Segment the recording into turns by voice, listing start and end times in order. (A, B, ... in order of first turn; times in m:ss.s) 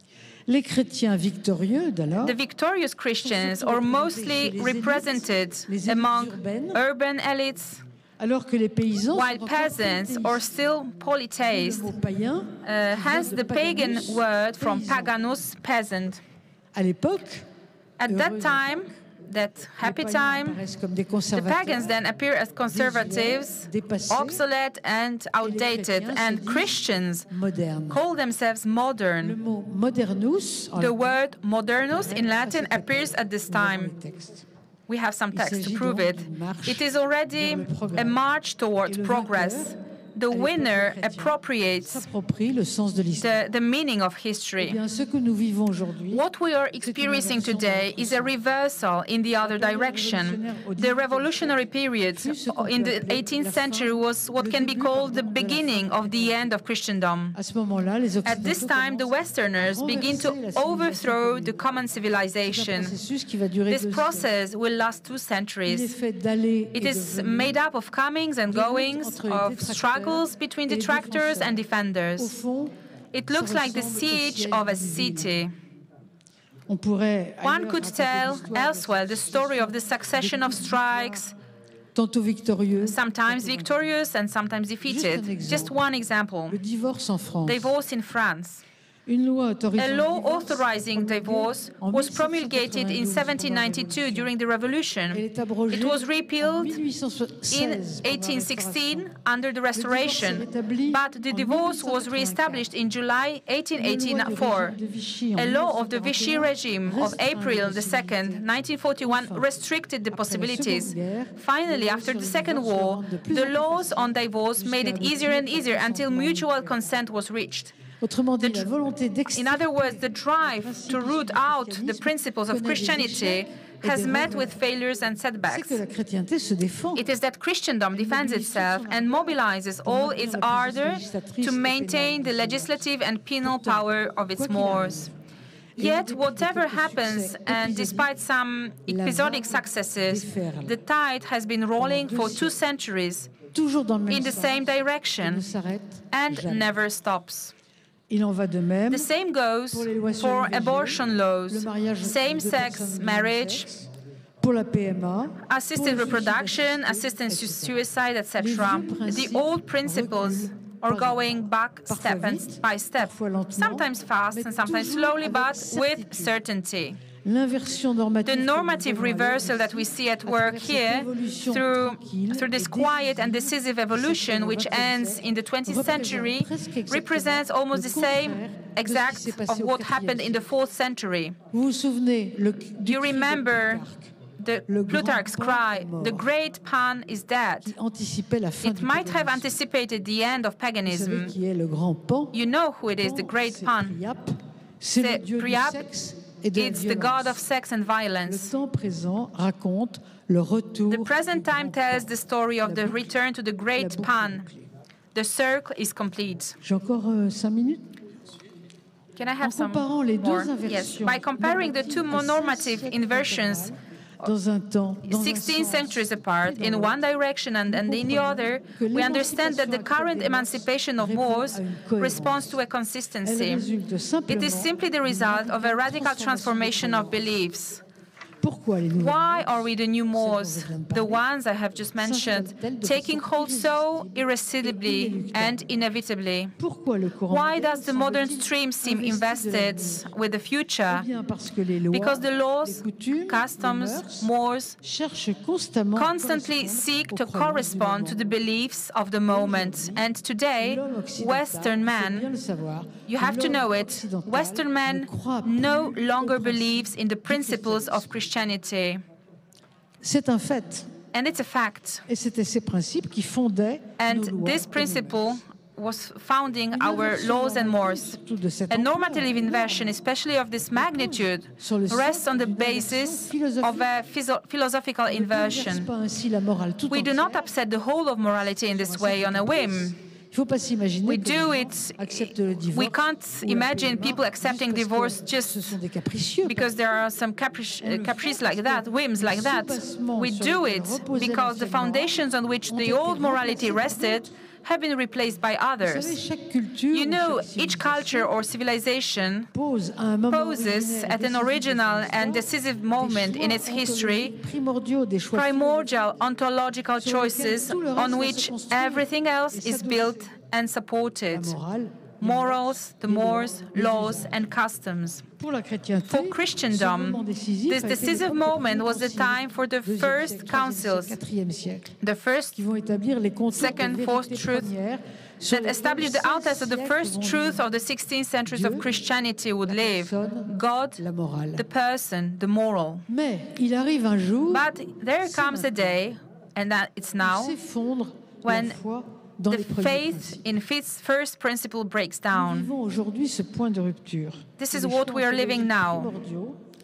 0:00.5-0:02.4 A
0:02.2-0:07.8 B
0:03.2-0:06.8 A
0:08.2-0:10.4 A
0:09.1-0:11.9 B
0:11.4-0:15.2 A
0:12.6-0:16.2 B
0:16.7-0:17.5 A
0:18.0-0:20.6 B
0:18.1-0:18.8 A
0:19.8-0:21.9 A
0:21.4-0:27.3 B
0:22.7-0:24.4 A
0:25.4-0:26.8 A
0:27.3-0:28.0 A
0:27.9-0:29.4 B
0:29.2-0:31.2 A
0:30.8-0:33.9 B
0:31.9-0:34.5 A
0:34.9-0:42.1 B
0:35.3-0:38.2 A
0:38.8-0:39.8 A
0:40.3-0:41.4 A
0:41.9-0:43.4 A
0:43.2-0:44.8 B
0:44.6-0:46.2 A
0:46.1-0:57.4 B
0:46.8-0:48.4 A
0:49.4-0:56.5 A
0:57.4-1:01.5 A
0:58.2-1:03.0 B
1:02.4-1:04.3 A
1:03.7-1:06.0 B
1:05.6-1:07.6 A
1:06.8-1:12.4 B
1:08.5-1:11.6 A
1:12.2-1:12.7 A
1:13.1-1:15.5 B
1:13.3-1:15.4 A
1:16.7-1:21.2 A
1:17.4-1:21.3 B
1:21.9-1:23.7 A
1:22.8-1:26.6 B
1:24.8-1:25.8 A
1:26.5-1:27.7 A
1:27.5-1:28.6 B
1:29.1-1:34.3 A
1:29.8-1:36.8 B
1:35.1-1:39.1 A
1:37.5-1:44.8 B
1:39.7-1:42.6 A
1:43.8-1:48.4 A
1:45.4-1:57.8 B
1:49.0-1:49.5 A
1:50.1-1:56.8 A
1:58.0-2:04.6 A
1:58.4-1:58.7 B
1:59.3-2:05.8 B
2:05.5-2:07.0 A
2:07.0-2:15.1 B
2:07.9-2:12.8 A
2:13.4-2:15.1 A
2:15.8-2:18.1 A
2:15.8-2:23.3 B
2:18.9-2:20.8 A
2:21.8-2:22.6 A
2:23.5-2:26.7 A
2:24.1-2:25.4 B
2:26.1-2:27.5 B
2:28.1-2:29.1 A
2:28.9-2:33.7 B
2:29.7-2:33.9 A
2:34.4-2:37.8 A
2:35.5-2:47.0 B
2:38.4-2:41.3 A
2:41.9-2:46.4 A
2:47.2-3:00.4 A
2:48.3-3:01.4 B
3:01.5-3:04.2 A
3:02.8-3:03.8 B
3:04.4-3:07.7 B
3:04.7-3:06.3 A
3:07.6-3:09.6 A
3:08.6-3:11.3 B
3:10.8-3:12.4 A
3:12.3-3:14.0 B
3:13.0-3:17.4 A
3:15.0-3:15.9 B
3:16.6-3:18.5 B
3:18.2-3:22.1 A
3:20.9-3:24.4 B
3:22.6-3:23.1 A
3:23.8-3:24.7 A
3:25.1-3:26.6 B
3:26.6-3:27.8 A
3:29.2-3:33.7 B
3:29.4-3:37.0 A
3:35.0-3:43.7 B
3:37.7-3:42.6 A
3:43.2-3:47.4 A
3:44.3-3:47.8 B
3:48.4-3:51.2 A
3:49.0-3:56.5 B
3:52.0-3:55.6 A
3:56.6-4:00.1 A
3:57.3-4:01.1 B
4:00.9-4:04.3 A
4:01.9-4:04.8 B
4:04.8-4:08.2 A
4:06.0-4:12.3 B
4:09.3-4:10.1 A
4:10.6-4:18.1 A
4:13.1-4:19.0 B
4:20.0-4:20.9 A
4:21.1-4:22.0 B
4:22.1-4:25.4 A
4:24.0-4:28.2 B
4:26.7-4:29.9 A
4:28.7-4:35.9 B
4:30.8-4:33.9 A
4:35.1-4:37.4 A
4:36.9-4:40.0 B
4:38.7-4:46.7 A
4:41.0-4:45.8 B
4:46.4-4:56.2 B
4:47.8-4:52.1 A
4:52.7-4:54.3 A
4:55.8-4:58.3 A
4:56.9-4:59.5 B
4:59.5-5:06.0 A
5:00.3-5:04.3 B
5:05.3-5:11.6 B
5:07.0-5:10.3 A
5:11.3-5:14.3 A
5:12.2-5:15.2 B
5:15.4-5:22.0 A
5:16.0-5:21.2 B
5:22.0-5:22.6 B
5:22.6-5:27.6 A
5:23.5-5:24.7 B
5:25.5-5:31.0 B
5:28.5-5:28.9 A
5:29.7-5:31.6 A
5:31.6-5:33.0 B
5:33.1-5:34.7 A
5:34.5-5:37.6 B
5:35.2-5:36.0 A
5:37.2-5:40.4 A
5:38.4-5:38.8 B
5:39.5-5:42.7 B
5:42.3-5:46.6 A
5:44.6-5:46.1 B